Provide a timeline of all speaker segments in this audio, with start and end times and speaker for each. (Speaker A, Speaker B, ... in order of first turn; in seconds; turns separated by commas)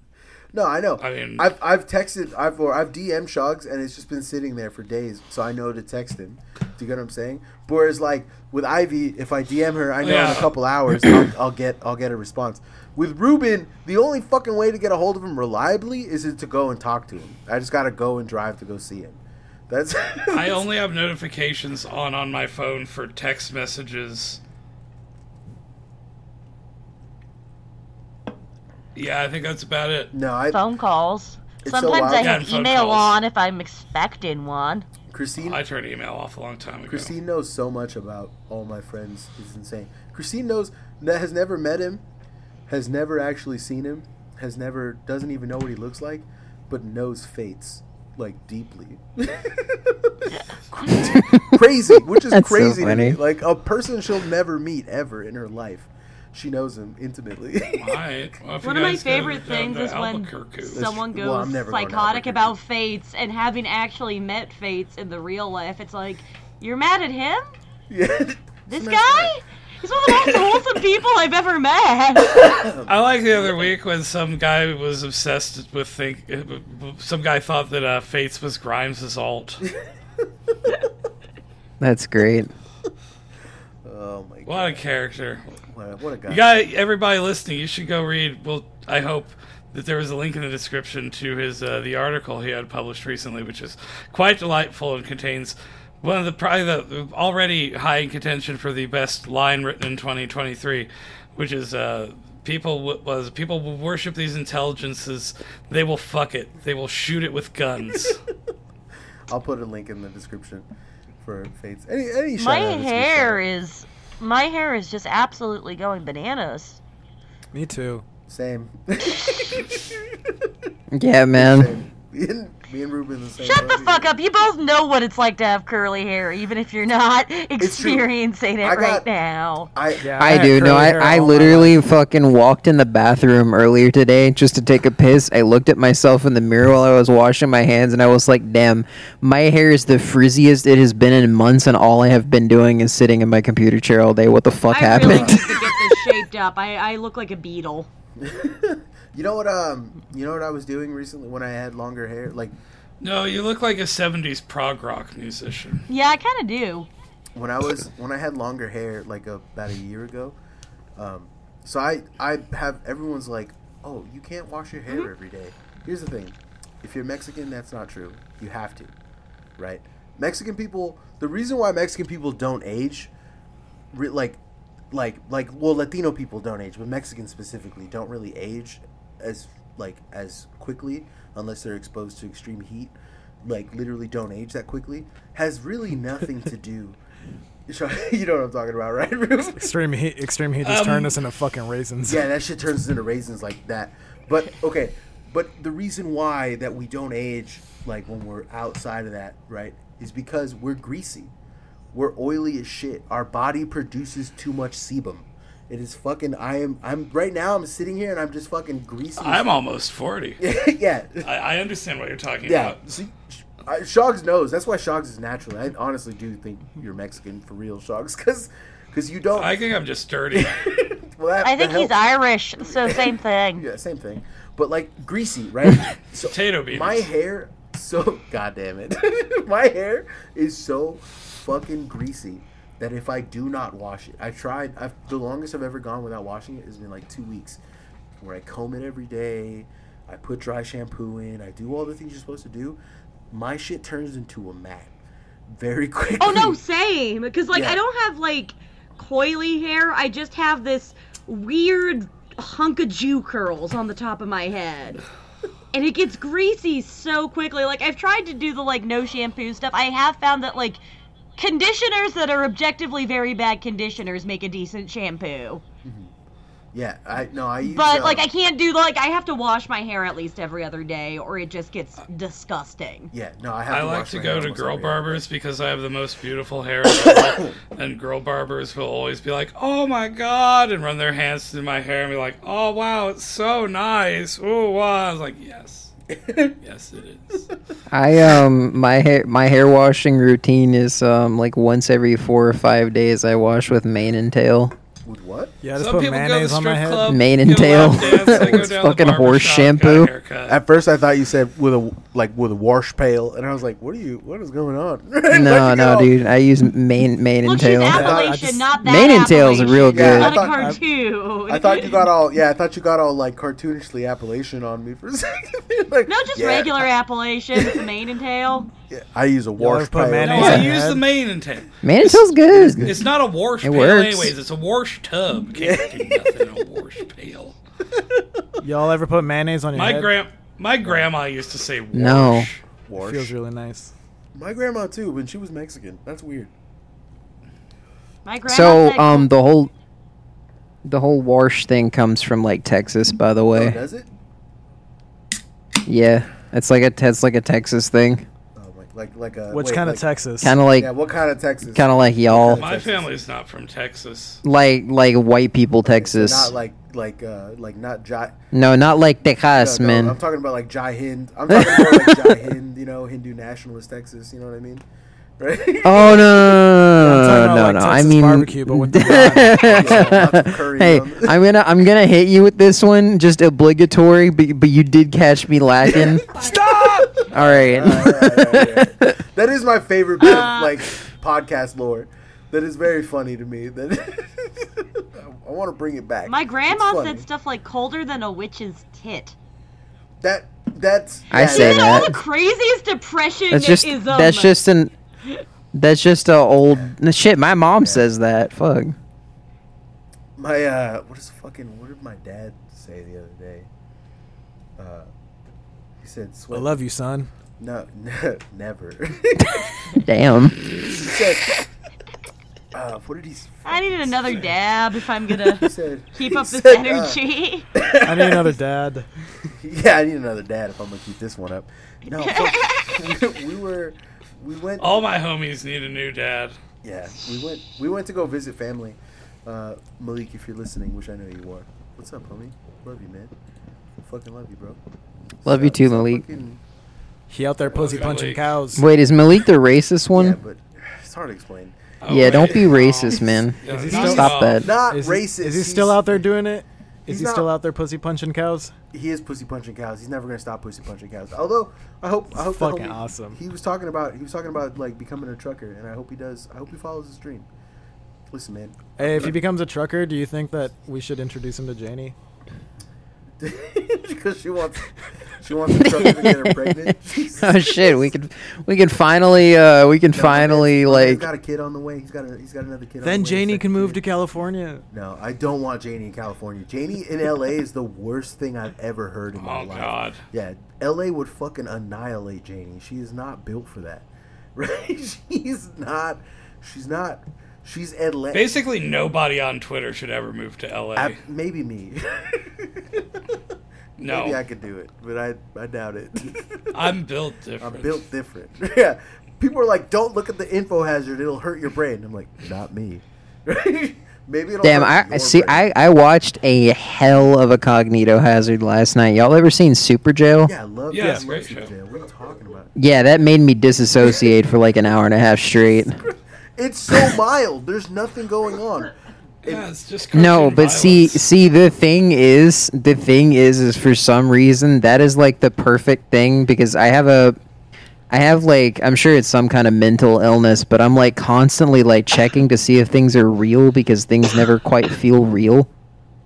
Speaker A: 0.5-20.6, Speaker B: 1.0-1.5, Speaker B: 10.0-11.2, Speaker B: 20.3-24.4, Speaker B: 28.9-30.1, Speaker A: 30.1-30.6, Speaker C: 30.5-34.9, Speaker A: 31.6-32.3, Speaker B: 32.2-33.1, Speaker A: 35.1-35.6, Speaker B: 35.4-37.1, Speaker A: 36.9-42.0, Speaker A: 42.7-58.0, Speaker C: 50.3-51.1, Speaker D: 51.0-51.6, Speaker D: 52.3-53.2, Speaker B: 57.8-60.8, Speaker C: 58.6-67.5, Speaker A: 60.7-62.6, Speaker A: 67.9-69.3, Speaker C: 68.7-72.5, Speaker A: 70.1-70.7, Speaker A: 72.3-73.7, Speaker B: 72.8-79.6, Speaker D: 81.8-82.5, Speaker A: 83.8-84.8, Speaker B: 84.5-85.4, Speaker A: 85.5-86.4, Speaker B: 86.3-108.2, Speaker A: 109.3-110.7, Speaker A: 111.2-113.4, Speaker C: 112.4-116.8, Speaker E: 117.5-118.0, Speaker A: 118.3-120.5, Speaker D: 120.9-121.7, Speaker A: 121.3-124.1, Speaker C: 123.4-129.7, Speaker A: 127.6-128.1, Speaker A: 128.6-129.1, Speaker A: 129.7-130.5, Speaker E: 130.0-131.8, Speaker D: 130.2-145.9, Speaker C: 144.7-147.9, Speaker A: 145.0-145.4, Speaker A: 148.2-152.5, Speaker B: 153.0-155.8, Speaker C: 155.9-156.9, Speaker A: 157.3-160.3, Speaker A: 160.9-168.9, Speaker A: 169.6-173.1, Speaker A: 173.9-174.4, Speaker A: 174.9-187.0, Speaker A: 187.7-189.7, Speaker E: 189.5-192.3, Speaker B: 190.6-191.2, Speaker A: 192.1-201.3, Speaker A: 201.9-209.5, Speaker B: 209.2-210.4, Speaker A: 210.4-211.3, Speaker B: 211.2-212.8, Speaker A: 212.4-219.5, Speaker B: 219.3-220.5, Speaker A: 220.3-221.9, Speaker C: 221.4-223.7, Speaker A: 222.7-237.6, Speaker B: 226.2-227.1, Speaker A: 238.2-242.8, Speaker A: 243.3-244.9, Speaker A: 245.5-246.6, Speaker C: 246.2-255.0, Speaker A: 247.5-247.8, Speaker C: 255.7-260.8, Speaker C: 261.4-265.6, Speaker A: 265.8-266.1, Speaker A: 266.7-268.3, Speaker C: 267.6-273.1, Speaker A: 273.1-275.2, Speaker B: 273.7-285.9, Speaker A: 276.9-277.5, Speaker A: 286.1-286.6, Speaker B: 286.6-287.5, Speaker D: 287.9-294.7, Speaker A: 295.0-295.6, Speaker E: 295.6-297.1, Speaker B: 295.7-300.6, Speaker D: 297.1-300.1, Speaker A: 297.7-298.8, Speaker A: 300.5-306.1, Speaker D: 305.3-308.1, Speaker C: 307.4-312.1, Speaker E: 307.9-308.6, Speaker A: 307.9-308.4, Speaker D: 308.8-310.4, Speaker A: 309.9-310.8, Speaker E: 310.1-310.8, Speaker A: 311.5-316.9, Speaker C: 316.1-318.7, Speaker A: 317.6-317.8, Speaker A: 318.9-320.7, Speaker E: 319.6-321.0, Speaker B: 320.2-322.2, Speaker D: 320.4-320.7, Speaker D: 321.8-322.9, Speaker A: 322.5-323.0, Speaker B: 322.8-327.6, Speaker D: 323.6-324.3, Speaker A: 325.6-326.4, Speaker A: 327.9-328.4, Speaker E: 328.6-330.1, Speaker B: 329.7-332.6, Speaker D: 331.9-332.5, Speaker A: 332.8-333.3, Speaker E: 333.0-333.9, Speaker A: 334.3-336.5, Speaker C: 338.2-339.3, Speaker D: 338.5-339.7, Speaker D: 340.8-343.8, Speaker A: 343.5-344.1, Speaker D: 345.8-348.2, Speaker A: 348.5-350.1, Speaker E: 349.5-350.6, Speaker D: 350.4-350.9, Speaker A: 350.7-353.1, Speaker D: 351.7-352.6, Speaker B: 352.4-354.4, Speaker D: 354.4-356.5, Speaker A: 355.8-358.4, Speaker D: 358.5-360.2, Speaker A: 359.6-364.8, Speaker D: 361.5-362.5, Speaker A: 365.4-366.6, Speaker D: 365.8-376.3, Speaker E: 367.0-370.1, Speaker A: 369.1-371.4, Speaker A: 375.9-387.2, Speaker D: 377.3-379.1, Speaker C: 380.2-380.7, Speaker C: 386.2-389.4, Speaker A: 390.2-392.1, Speaker D: 391.3-392.1, Speaker C: 391.4-394.6, Speaker D: 393.5-394.9, Speaker D: 395.7-398.9, Speaker A: 396.7-396.9, Speaker A: 397.8-398.0, Speaker A: 400.4-403.7, Speaker A: 404.8-405.1, Speaker A: 406.0-406.8, Speaker E: 406.5-407.3, Speaker A: 407.6-409.8, Speaker D: 409.9-410.6, Speaker A: 410.8-411.6, Speaker A: 412.7-414.5, Speaker C: 413.6-417.7, Speaker A: 415.5-417.2, Speaker A: 417.7-418.5, Speaker E: 418.0-419.1, Speaker A: 419.6-424.9, Speaker C: 422.1-422.9, Speaker B: 424.8-426.6, Speaker A: 426.8-433.3, Speaker A: 434.0-434.8, Speaker A: 435.4-436.6, Speaker D: 435.4-436.2, Speaker E: 437.3-438.9, Speaker A: 437.6-438.3, Speaker B: 437.8-438.4, Speaker D: 438.7-440.4, Speaker A: 440.1-446.2, Speaker B: 442.0-444.7, Speaker D: 442.1-444.7, Speaker E: 443.6-448.7, Speaker A: 447.1-447.5, Speaker A: 448.9-457.5, Speaker E: 452.4-453.4, Speaker A: 458.3-459.4, Speaker E: 459.0-462.1, Speaker A: 463.4-468.0, Speaker D: 465.8-471.2, Speaker A: 470.1-474.0, Speaker E: 473.0-474.8, Speaker A: 474.9-488.5, Speaker B: 479.3-480.2, Speaker B: 488.3-491.2, Speaker A: 490.9-493.2, Speaker B: 494.0-494.4, Speaker A: 494.0-496.7, Speaker B: 496.7-498.0, Speaker A: 497.6-505.6, Speaker D: 504.6-510.5, Speaker A: 510.4-512.7, Speaker B: 510.9-511.7, Speaker D: 512.8-516.0, Speaker A: 516.5-518.9, Speaker B: 519.4-521.2, Speaker D: 520.1-527.4, Speaker D: 528.1-535.7